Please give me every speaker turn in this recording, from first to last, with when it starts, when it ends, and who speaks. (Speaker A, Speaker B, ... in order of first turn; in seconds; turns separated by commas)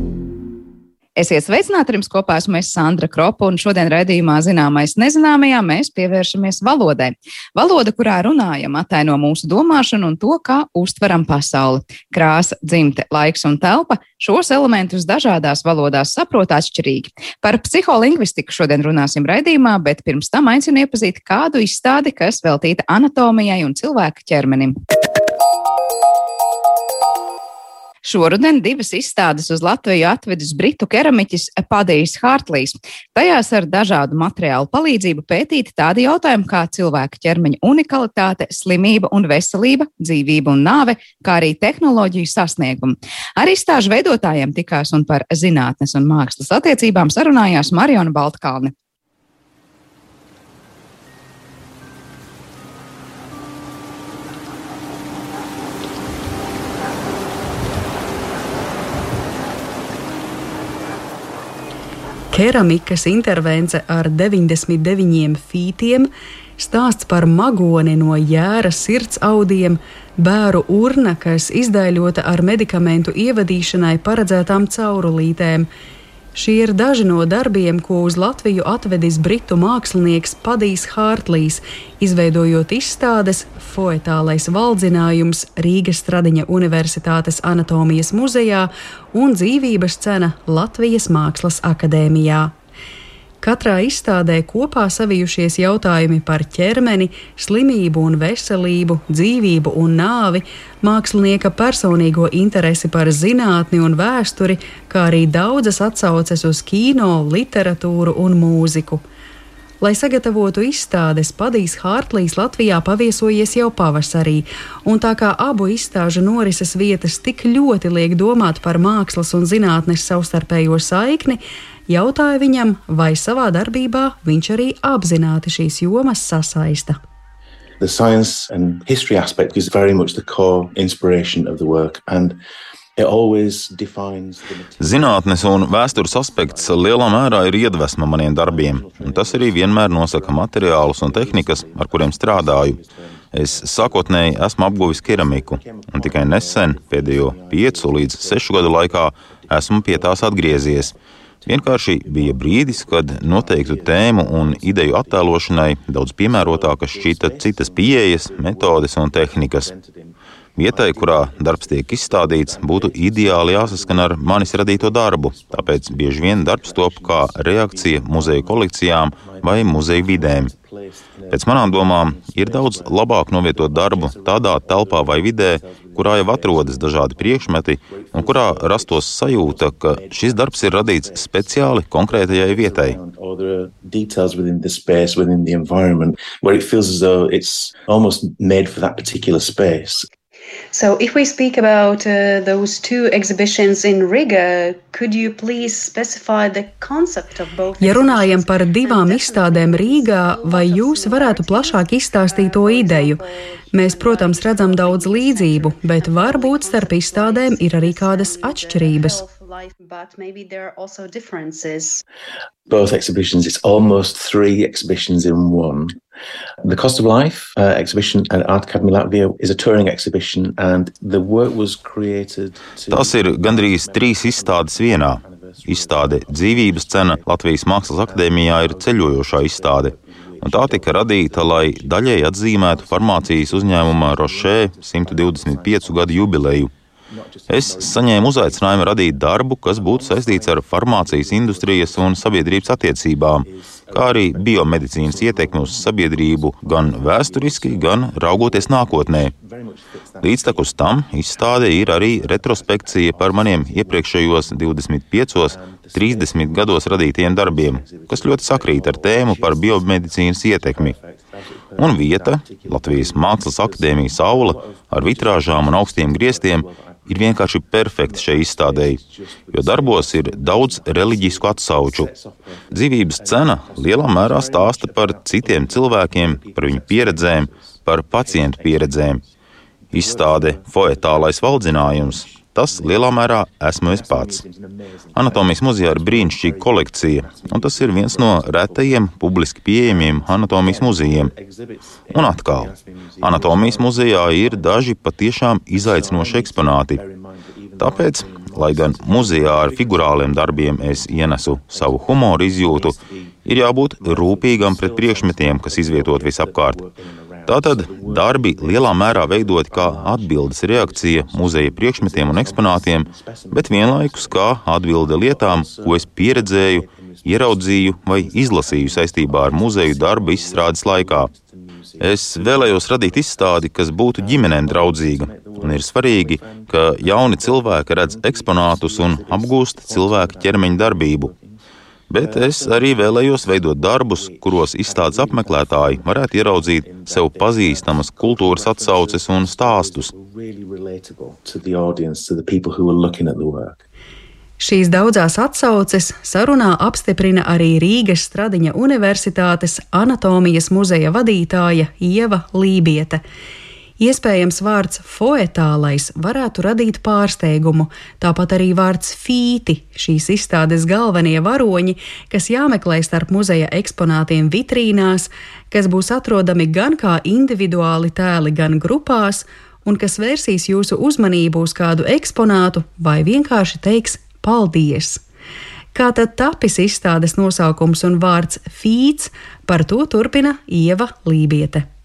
Speaker A: 1.2-24.8, Speaker A: 28.1-48.7, Speaker B: 62.3-75.7, Speaker B: 76.3-92.5, Speaker B: 93.4-109.0, Speaker B: 109.8-127.0, Speaker C: 127.8-132.4, Speaker C: 133.0-150.9, Speaker D: 134.8-142.8, Speaker D: 143.3-150.9, Speaker C: 151.4-155.2, Speaker D: 151.5-159.7, Speaker C: 156.3-160.1, Speaker D: 160.6-170.5, Speaker C: 160.7-168.6, Speaker C: 169.2-173.0, Speaker D: 171.3-183.0, Speaker C: 173.5-181.3, Speaker C: 182.1-190.1, Speaker E: 190.7-212.0, Speaker B: 197.8-203.2, Speaker B: 203.7-209.2, Speaker C: 212.7-216.0, Speaker C: 216.6-227.2, Speaker D: 222.9-236.7, Speaker C: 228.1-232.0, Speaker C: 232.6-236.6, Speaker C: 237.2-239.2, Speaker D: 237.5-249.3, Speaker C: 239.8-242.6, Speaker C: 243.4-250.7, Speaker D: 250.2-260.9, Speaker C: 251.4-254.6, Speaker C: 255.5-259.8, Speaker C: 260.4-267.0, Speaker D: 261.8-269.0, Speaker C: 268.0-272.6, Speaker D: 269.5-272.1, Speaker D: 272.7-279.2, Speaker C: 273.2-277.6, Speaker C: 278.3-279.1, Speaker C: 279.9-282.9, Speaker D: 279.9-284.4, Speaker C: 283.9-288.9, Speaker D: 285.1-291.3, Speaker C: 289.9-294.7, Speaker D: 292.1-297.0, Speaker C: 295.8-300.4, Speaker D: 297.8-302.9, Speaker C: 301.0-303.4, Speaker D: 303.5-306.8, Speaker C: 304.0-314.4, Speaker D: 307.5-321.3, Speaker C: 315.1-323.2, Speaker D: 322.0-331.3, Speaker C: 324.2-331.6, Speaker D: 332.1-340.1, Speaker C: 332.2-333.2, Speaker C: 334.2-343.8, Speaker B: 344.6-353.2, Speaker B: 354.0-375.2, Speaker B: 375.9-381.9